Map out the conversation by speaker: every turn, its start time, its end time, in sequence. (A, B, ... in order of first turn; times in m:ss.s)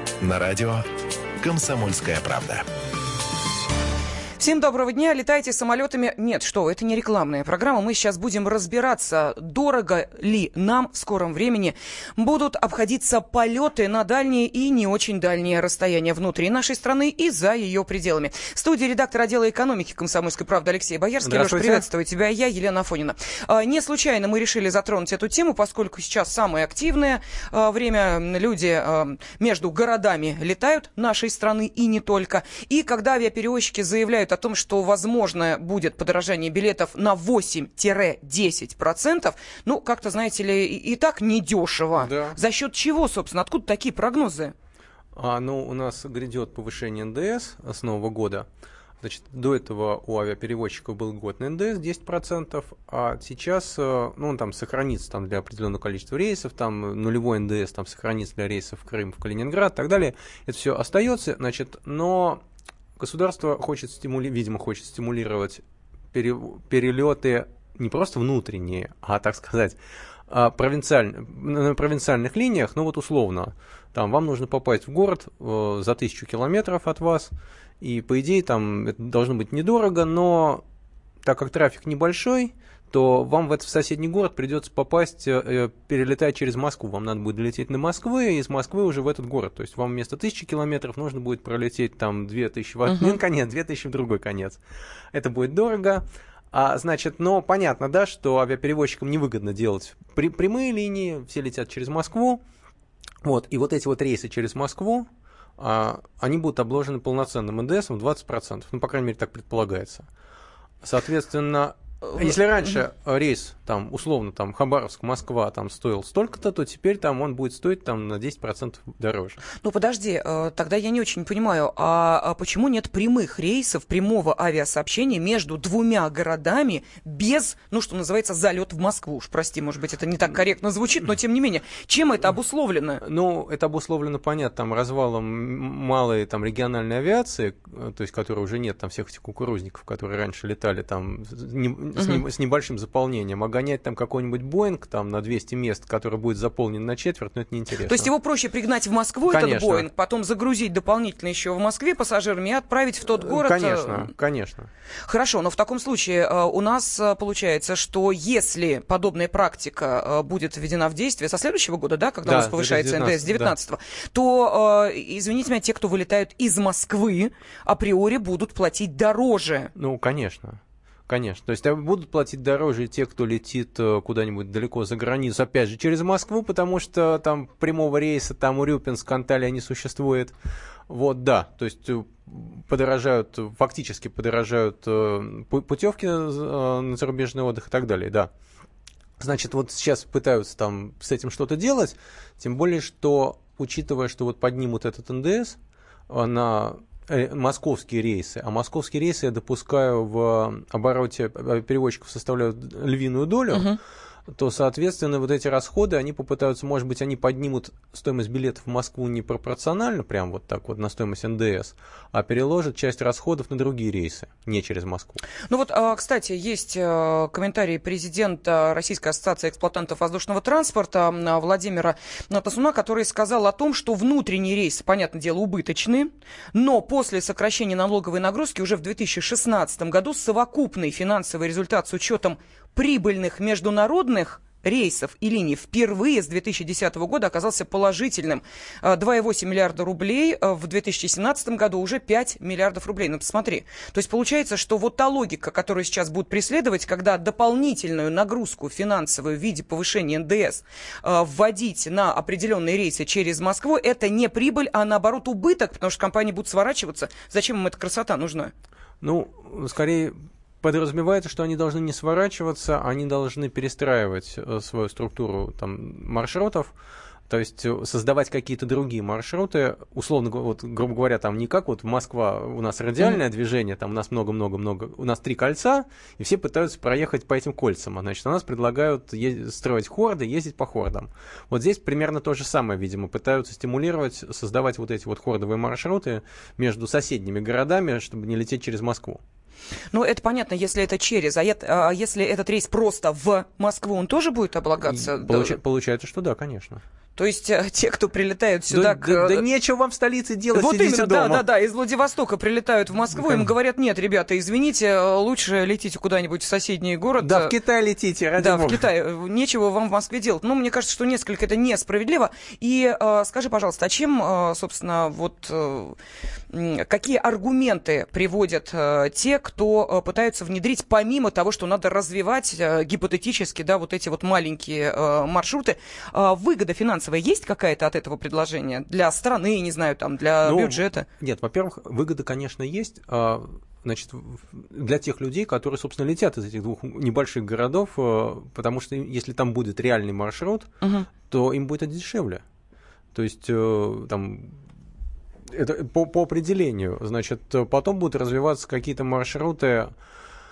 0:00.2-0:00.8 A
0:01.4-0:02.6 A
0:04.4-0:44.5 B
0:21.2-0:21.8 C
0:42.0-0:42.4 C
0:45.2-0:48.4 C
0:49.0-1:02.4 C
1:03.0-1:05.6 C
1:06.1-1:09.8 C
1:10.3-1:20.6 C
1:21.2-1:34.6 C
1:35.1-1:42.4 C
1:43.2-1:50.1 C
1:50.8-1:59.4 C
1:59.6-2:13.0 B
2:13.0-2:28.1 C
2:22.0-2:22.2 B
2:27.8-2:34.1 B
2:29.3-2:29.9 C
2:33.2-2:34.7 C
2:35.0-2:49.7 B
2:42.2-2:43.5 C
2:49.7-3:00.3 C
3:00.9-3:08.3 C
3:09.2-3:15.6 C
3:16.1-3:23.8 C
3:23.5-3:23.8 B
3:24.3-3:35.2 C
3:35.5-4:18.5 B
4:19.0-4:26.7 C
4:27.3-4:49.2 C
4:49.9-4:55.6 B
4:54.8-4:56.8 C
4:57.2-4:59.4 B
4:58.7-5:01.4 C
5:00.5-5:07.6 B
5:03.2-5:03.4 C
5:07.2-5:08.9 C
5:08.4-5:16.0 B
5:16.5-5:31.1 B
5:30.4-5:40.7 C
5:40.8-5:41.1 B
5:41.2-5:42.4 C
5:43.1-5:44.6 C
5:45.5-5:49.9 C